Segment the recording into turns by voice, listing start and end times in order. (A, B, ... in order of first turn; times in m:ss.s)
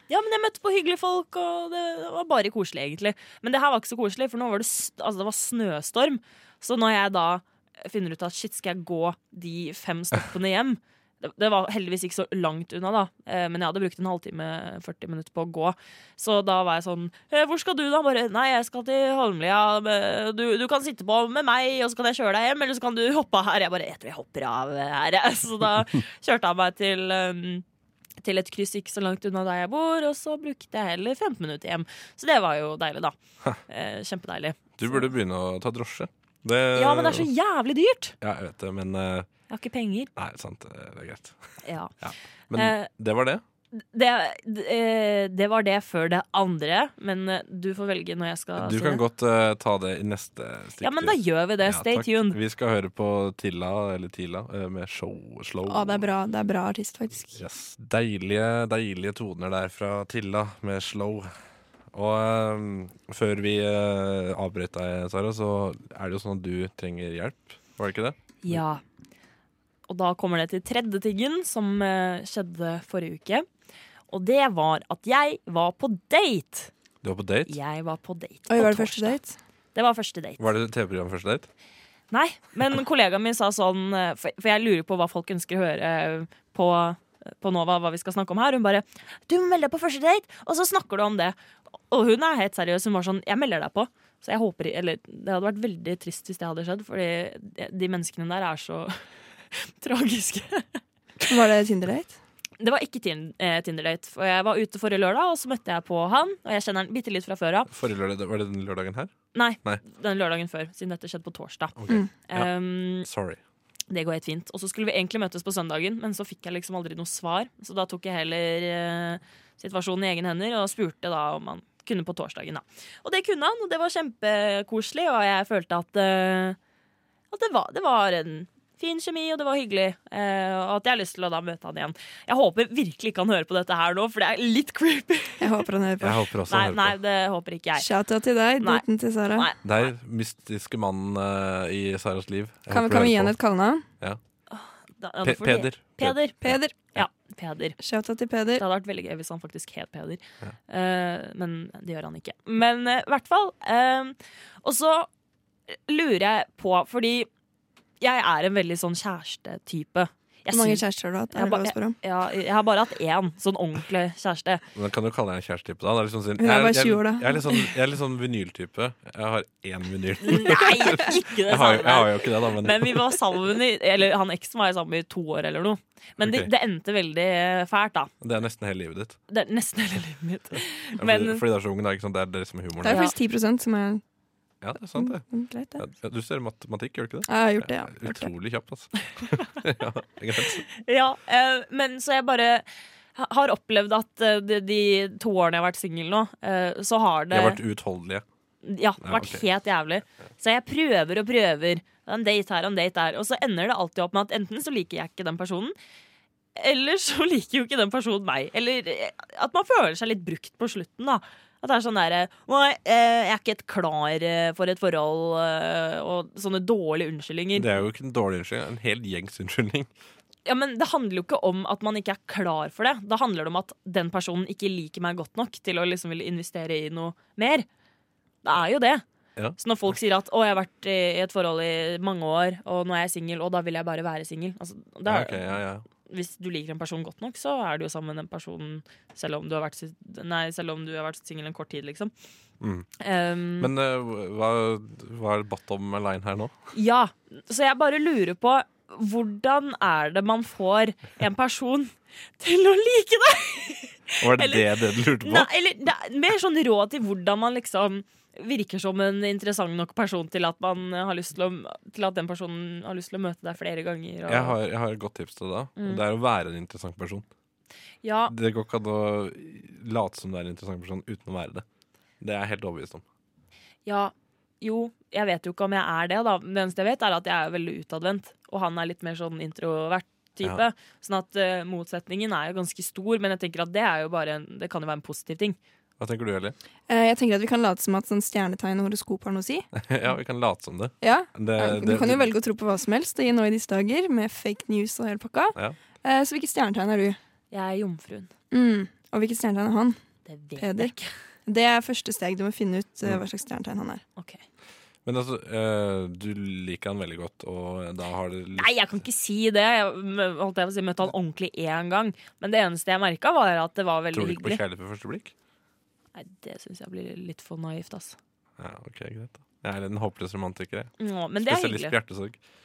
0:00.1-0:27.6 A
0:28.2-0:33.2 A
0:33.7-0:35.0 A
0:34.8-0:37.3 B
0:36.8-0:38.2 A
0:38.2-0:39.3 B
0:39.5-0:40.1 A
0:40.2-0:41.4 B
0:41.6-0:41.9 A
0:42.0-0:43.4 B
0:42.6-0:42.9 A
0:43.7-0:49.0 A
0:48.6-0:56.1 B
0:50.8-0:52.4 A
0:55.7-0:57.4 C
0:57.4-1:01.3 B
1:01.9-1:08.6 B
1:08.4-1:08.8 A
1:09.9-1:13.5 A
1:14.1-1:16.7 A
1:17.0-1:17.6 B
1:17.5-1:19.2 A
1:18.5-1:19.4 C
1:19.8-1:20.5 A
1:20.4-1:21.5 B
1:22.1-1:31.4 A
1:31.9-1:40.8 A
1:41.2-1:42.2 C
1:42.6-1:47.7 A
1:47.7-1:49.8 B
1:49.3-1:53.1 A
1:51.8-1:53.4 B
1:53.9-2:06.6 A
2:07.3-2:15.6 A
2:15.4-2:16.3 C
2:16.0-2:17.0 B
2:16.5-2:17.9 A
2:17.8-2:19.5 C
2:18.6-2:19.6 A
2:19.6-2:23.4 B
2:22.7-2:23.8 C
2:24.5-2:26.4 A
2:25.2-2:27.0 B
2:26.4-2:26.8 C
2:27.0-2:27.8 A
2:27.8-2:28.6 C
2:28.6-2:35.1 A
2:35.9-2:37.3 A
2:38.0-2:40.8 A
2:40.5-2:42.0 C
2:41.4-2:44.6 A
2:44.8-2:53.1 B
2:46.4-2:47.4 C
2:50.2-2:58.1 A
2:56.2-2:56.5 B
2:58.2-2:59.2 B
2:59.3-3:01.4 A
3:01.0-3:03.0 B
3:02.8-3:04.0 C
3:02.8-3:03.1 A
3:04.6-3:05.2 B
3:05.0-3:05.8 C
3:05.8-3:10.6 B
3:07.3-3:08.3 C
3:10.7-3:12.6 A
3:13.2-3:17.6 A
3:17.3-3:18.2 B
3:18.6-3:25.8 A
3:19.0-3:19.4 B
3:26.6-3:37.7 A
3:37.6-3:39.9 B
3:40.4-3:47.7 A
3:48.4-3:49.0 A
3:49.6-3:55.5 A
3:55.1-3:55.9 B
3:56.1-4:02.1 A
4:02.6-4:02.9 B
4:03.0-4:03.7 A
4:03.6-4:06.6 B
4:06.7-4:24.6 A
4:14.2-4:15.5 B
4:24.3-4:27.3 B
4:25.8-4:26.0 A
4:28.0-4:28.3 A
4:28.3-4:31.6 B
4:32.2-4:33.0 B
4:33.8-4:45.6 A
4:46.0-4:46.6 B
4:46.9-4:49.7 C
4:49.8-4:52.3 B
4:51.0-4:57.2 C
4:57.5-4:58.3 A
4:58.5-5:00.0 C
5:00.3-5:01.1 A
5:00.6-5:00.9 C
5:01.5-5:04.0 C
5:05.1-5:08.7 B
5:08.6-5:14.6 A
5:14.1-5:15.3 B
5:16.2-5:18.2 A
5:18.6-5:22.4 B
5:21.0-5:22.0 A